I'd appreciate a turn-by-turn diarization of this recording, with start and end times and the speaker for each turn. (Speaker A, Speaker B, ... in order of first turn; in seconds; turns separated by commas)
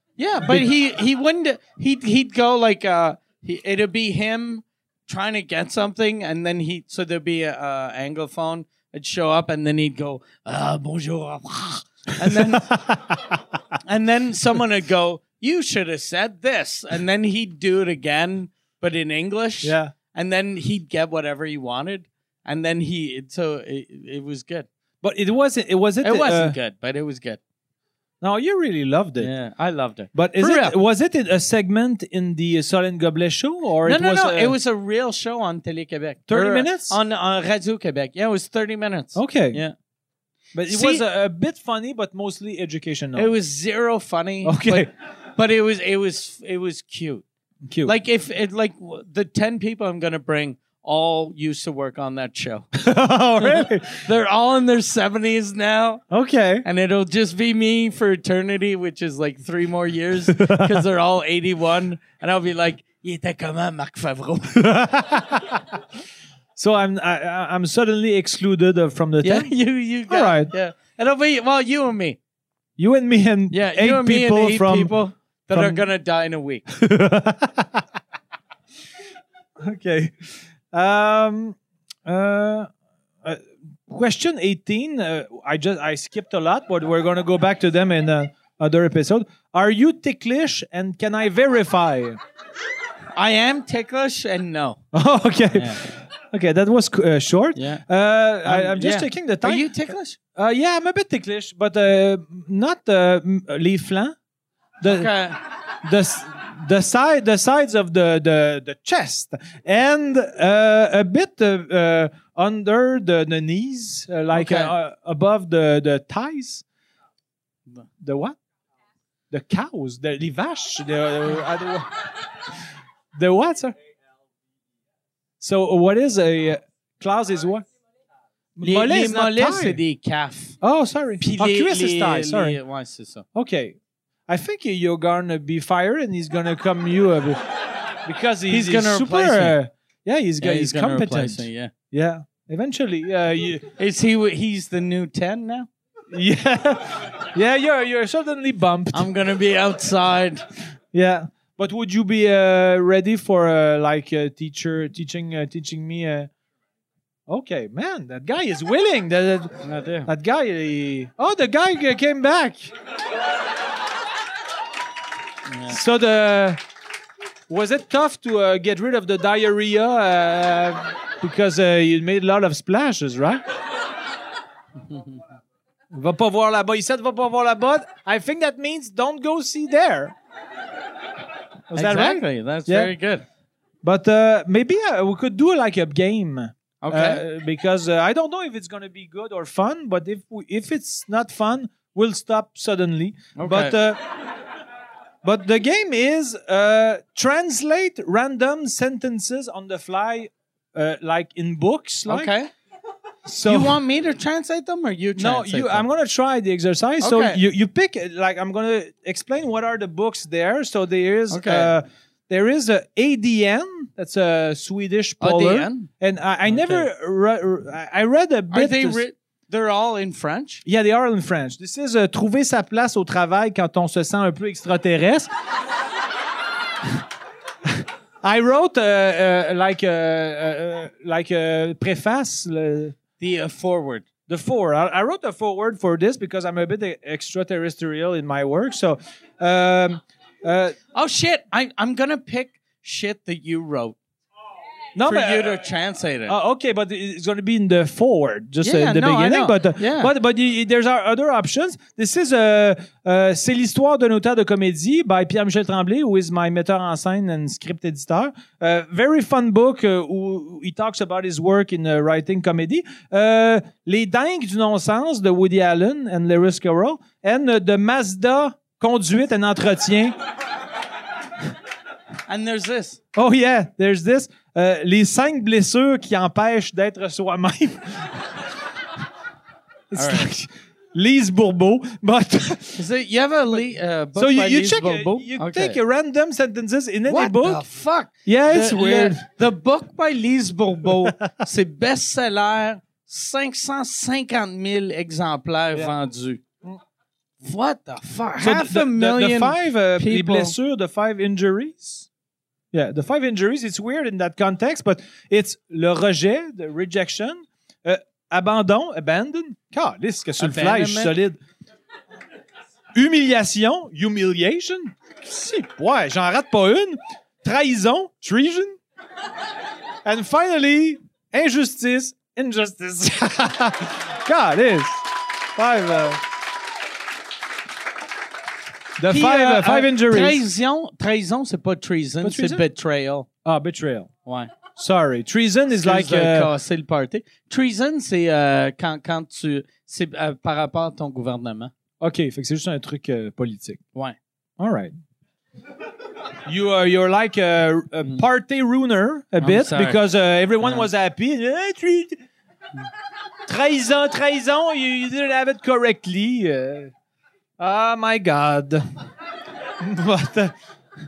Speaker A: 0.2-12.9, Speaker B: 12.3-13.3, Speaker A: 13.8-24.7, Speaker B: 19.6-19.9, Speaker B: 25.0-26.6, Speaker A: 26.0-27.4, Speaker B: 28.2-29.3, Speaker A: 29.2-30.7, Speaker B: 30.1-34.5, Speaker A: 33.8-39.7, Speaker B: 36.3-36.9, Speaker B: 39.1-39.6, Speaker B: 40.5-43.3, Speaker A: 40.7-41.0, Speaker A: 43.1-47.2, Speaker B: 44.4-44.9, Speaker B: 47.6-47.9, Speaker A: 47.8-52.7, Speaker B: 52.7-54.0, Speaker A: 53.4-56.0, Speaker B: 56.1-56.6, Speaker A: 56.6-64.7, Speaker B: 60.3-60.8, Speaker B: 64.5-65.8, Speaker B: 66.5-69.5, Speaker A: 69.2-72.2, Speaker B: 70.1-70.5, Speaker B: 72.8-74.9, Speaker A: 73.5-76.7, Speaker B: 75.5-75.8, Speaker B: 76.7-77.8, Speaker B: 79.6-82.7, Speaker B: 83.2-92.2, Speaker A: 93.1-94.8, Speaker B: 94.9-99.7, Speaker A: 95.5-95.9, Speaker A: 97.5-97.8, Speaker A: 98.4-100.2, Speaker B: 100.3-104.2, Speaker B: 104.8-105.1, Speaker A: 104.8-105.4, Speaker B: 105.8-116.6, Speaker A: 114.3-114.7, Speaker B: 118.0-118.4, Speaker B: 119.3-121.9, Speaker B: 123.1-123.7, Speaker B: 125.4-127.7, Speaker B: 128.6-129.8, Speaker A: 128.6-130.6, Speaker B: 130.6-132.6, Speaker A: 131.2-133.2, Speaker B: 133.3-133.8, Speaker B: 134.3-137.4, Speaker B: 138.0-143.7, Speaker A: 138.5-139.6, Speaker A: 140.4-141.7, Speaker A: 143.8-145.7, Speaker B: 146.1-149.1, Speaker A: 148.9-150.4, Speaker B: 150.9-156.3, Speaker B: 157.3-162.7, Speaker A: 159.6-160.1, Speaker A: 165.5-165.8, Speaker B: 165.7-166.6, Speaker B: 167.5-173.4, Speaker A: 174.9-175.2, Speaker B: 175.9-180.1, Speaker B: 181.7-182.9, Speaker A: 181.7-183.2, Speaker B: 183.8-194.0, Speaker A: 186.8-187.2, Speaker A: 193.3-193.8, Speaker B: 195.2-202.3, Speaker A: 202.1-202.5, Speaker B: 203.2-203.8, Speaker A: 203.4-205.8, Speaker B: 205.2-219.0, Speaker A: 207.0-207.4, Speaker A: 211.3-211.7, Speaker A: 215.2-215.9, Speaker A: 216.5-216.9, Speaker A: 218.5-220.6, Speaker B: 220.6-225.3, Speaker B: 227.7-232.9, Speaker A: 233.2-234.1, Speaker B: 234.3-240.8, Speaker A: 240.9-243.9, Speaker B: 244.9-245.6, Speaker A: 245.0-246.3, Speaker B: 246.3-270.1, Speaker A: 248.6-250.1, Speaker A: 272.3-273.0, Speaker B: 273.1-278.5, Speaker B: 279.9-282.8, Speaker A: 279.9-280.3, Speaker A: 282.8-285.8, Speaker B: 284.1-287.6, Speaker A: 287.1-296.4, Speaker B: 288.2-289.2, Speaker A: 297.4-300.6, Speaker B: 298.4-302.1, Speaker B: 302.7-311.4, Speaker A: 310.4-311.1, Speaker B: 312.9-318.8, Speaker B: 320.0-326.2, Speaker B: 329.0-330.4, Speaker A: 329.1-333.3, Speaker B: 332.2-332.6, Speaker B: 333.4-334.1, Speaker A: 334.2-334.5, Speaker B: 334.8-336.5, Speaker A: 335.7-341.7, Speaker B: 342.0-343.8, Speaker B: 344.6-344.9, Speaker B: 346.4-352.2, Speaker A: 349.4-350.0, Speaker B: 353.5-356.9, Speaker B: 357.6-358.8, Speaker B: 359.8-360.5